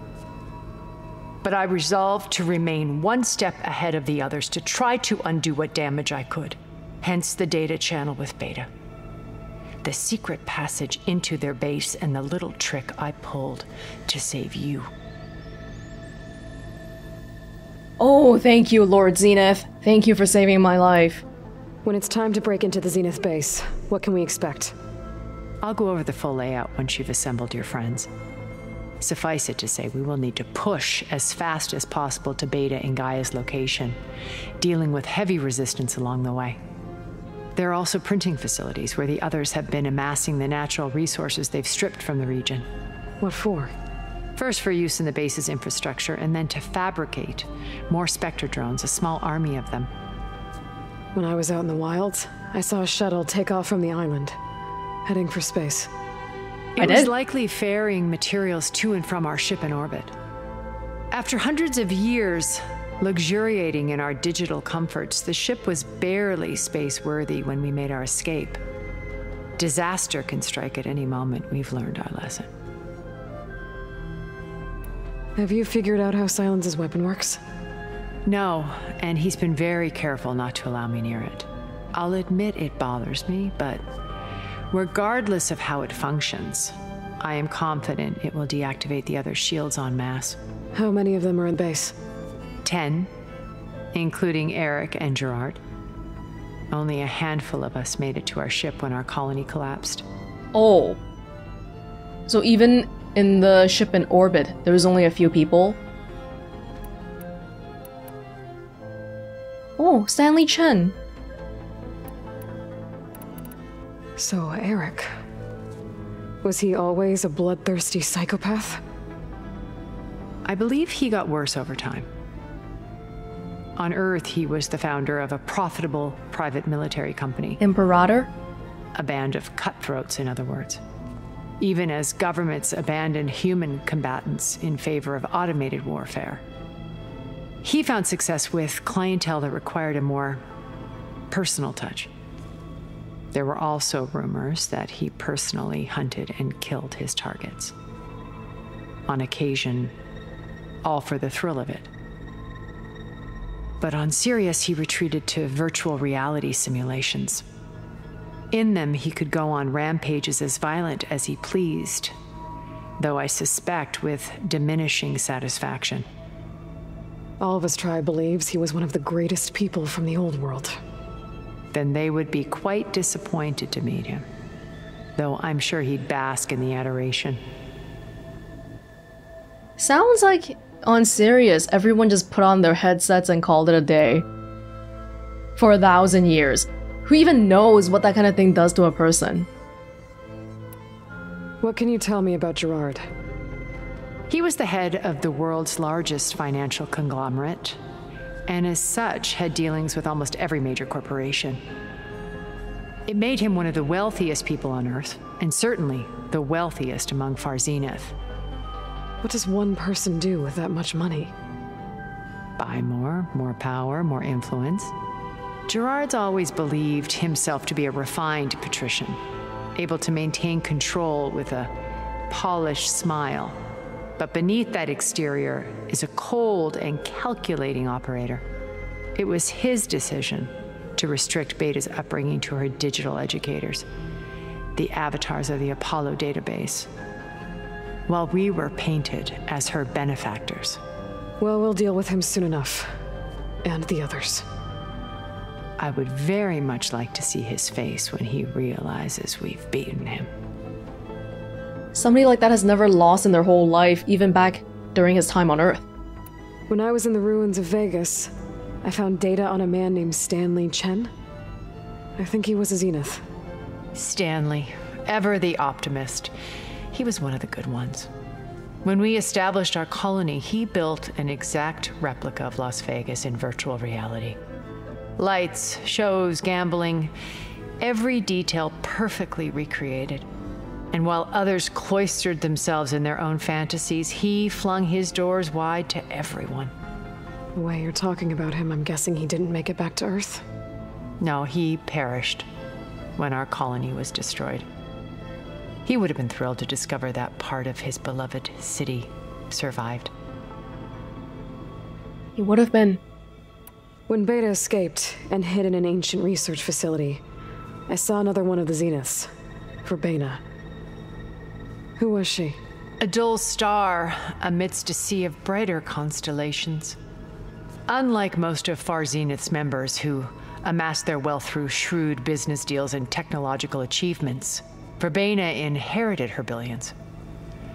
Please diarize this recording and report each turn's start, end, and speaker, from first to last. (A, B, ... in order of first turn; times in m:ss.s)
0:01.4-0:08.7 A
0:09.8-0:14.9 A
0:18.0-0:21.2 B
0:21.8-0:24.8 C
0:25.6-0:28.1 A
0:29.0-0:34.0 A
0:34.6-0:36.6 A
0:37.6-0:42.6 A
0:43.2-0:43.7 C
0:44.4-0:49.9 A
0:51.1-0:54.4 C
0:55.0-0:55.9 C
0:56.8-1:00.1 A
0:56.8-0:57.1 B
1:01.1-1:08.6 A
1:09.6-1:12.5 A
1:15.4-1:17.4 C
1:18.2-1:23.8 A
1:24.7-1:30.4 A
1:30.7-1:32.0 C
1:32.6-1:33.1 A
1:33.9-1:35.6 A
1:36.7-1:40.0 A
1:40.5-1:41.0 B
1:42.3-1:45.8 B
1:49.8-1:51.0 B
1:54.2-1:55.1 C
1:56.4-1:58.8 C
2:00.4-2:02.1 A
2:03.8-2:07.6 A
2:07.6-2:08.3 B
2:09.0-2:10.8 A
2:11.6-2:16.4 A
2:17.6-2:20.4 A
2:21.3-2:22.1 A
2:23.3-2:27.7 A
2:29.1-2:29.9 A
2:30.8-2:31.9 A
2:33.8-2:37.4 A
2:38.5-2:42.1 A
2:43.0-2:46.1 A
2:47.4-2:50.8 C
2:51.7-2:54.2 A
2:55.2-2:57.4 A
2:59.8-3:04.2 B
3:05.6-3:09.5 B
3:11.6-3:13.0 C
3:14.3-3:17.8 A
3:18.5-3:21.6 A
3:23.1-3:28.1 A
3:29.2-3:31.3 C
3:32.6-3:34.9 A
3:35.7-3:39.2 A
3:39.8-3:41.7 A
3:42.3-3:43.6 A
3:44.2-3:48.4 A
3:49.2-3:53.8 A
3:54.8-3:56.9 A
3:58.1-4:00.8 A
4:01.4-4:03.0 C
4:03.6-4:04.4 C
4:05.8-4:10.3 A
4:11.9-4:15.8 B
4:16.7-4:18.3 C
4:18.8-4:21.1 C
4:22.2-4:23.2 C
4:23.9-4:26.3 A
4:26.9-4:28.1 A
4:28.8-4:34.4 A
4:35.2-4:37.1 A
4:37.8-4:40.3 A
4:40.9-4:46.7 A
4:47.5-4:50.4 C
4:51.2-4:52.5 A
4:53.2-4:54.6 A
4:55.8-5:00.1 A
5:02.4-5:03.0 B
5:04.1-5:07.2 C
5:07.9-5:09.3 C
5:09.8-5:10.4 C
5:12.0-5:12.6 C
5:13.0-5:17.0 A
5:17.9-5:26.9 A